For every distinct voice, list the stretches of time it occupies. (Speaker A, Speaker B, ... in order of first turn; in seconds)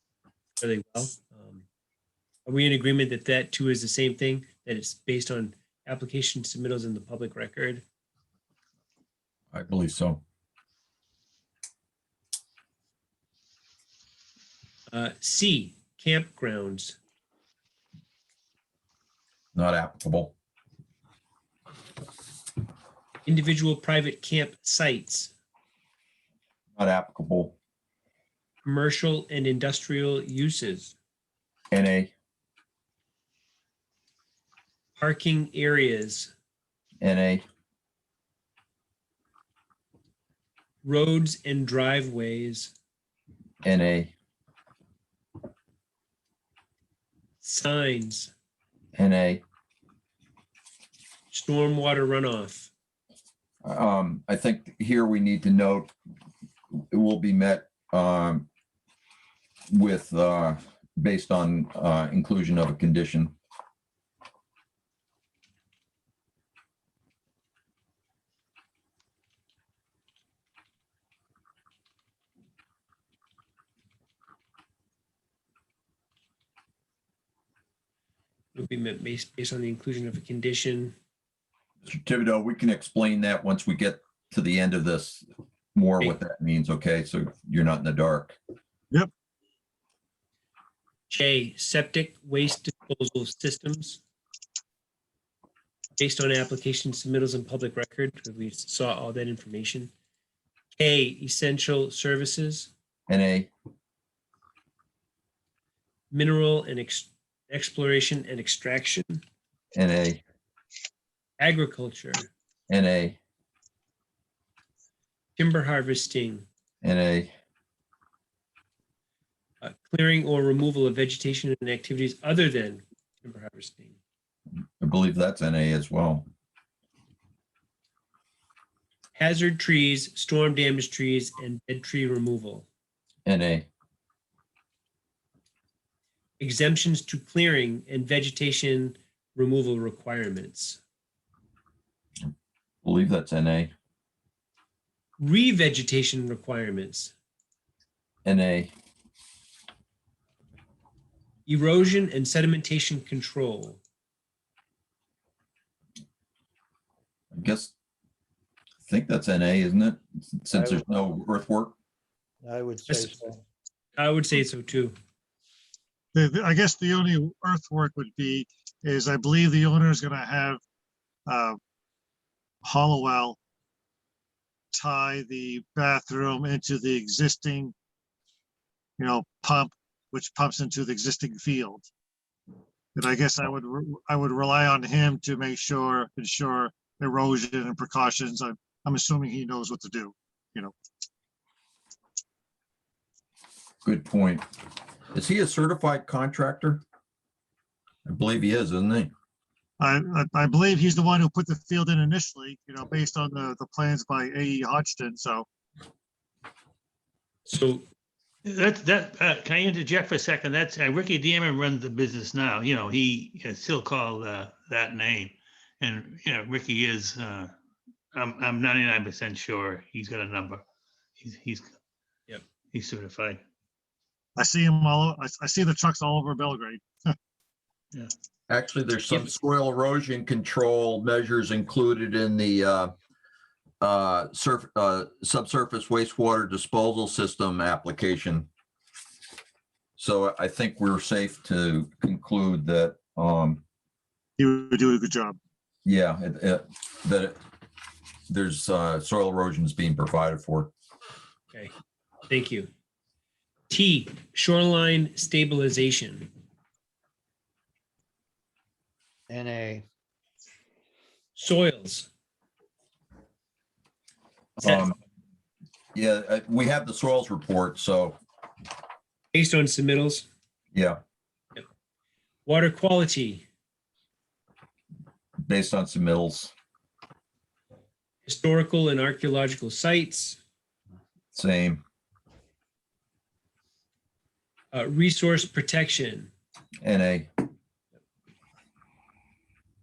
Speaker A: 0.6-1.6, 2.5-7.8, 14.9-17.0, 23.2-25.3, 28.6-30.9, 35.0-36.3, 40.8-42.7, 47.4-48.3, 51.3-52.7, 78.5-80.9, 91.1-94.0, 96.0-99.9, 100.8-102.7, 106.1-109.2, 111.4-112.3, 115.3-116.5, 119.6-124.0, 129.2-132.7, 136.4-140.8, 145.2-147.1, 151.4-153.8, 162.9-163.2, 164.0-164.9, 207.4-207.8, 252.3-252.7, 253.7-256.3, 261.4-262.1, 269.3-270.3, 272.4-273.4, 278.2-280.4, 284.7-286.3
Speaker B: 9.5-10.2, 19.5-20.3, 26.8-27.6, 31.7-32.1, 37.0-37.4, 43.6-44.1, 49.0-49.4, 53.6-55.9, 56.7-58.5, 59.7-63.3, 81.8-88.4, 103.1-103.5, 109.7-110.2, 112.7-113.2, 116.8-117.3, 124.8-126.2, 133.2-133.7, 142.8-143.7, 148.2-148.7, 157.3-157.7, 158.9-161.7, 193.8-194.5, 195.1-196.8, 198.1-199.1, 228.5-232.9, 233.8-238.5, 240.0-243.6, 245.8-247.4, 248.3-250.7, 264.6-265.0, 265.9-268.2, 270.7-271.0, 275.4-276.5, 281.3-281.8, 286.8-287.3
Speaker C: 160.5-161.0, 162.4-163.4, 259.3-259.8
Speaker D: 166.1-170.6, 171.3-171.6, 172.6-173.4, 174.7-177.7, 179.0-181.8, 182.9-190.7, 199.8-205.4, 224.4-227.2, 244.4-245.4
Speaker E: 208.4-217.5, 218.1-220.6, 221.2-221.7, 222.7-223.4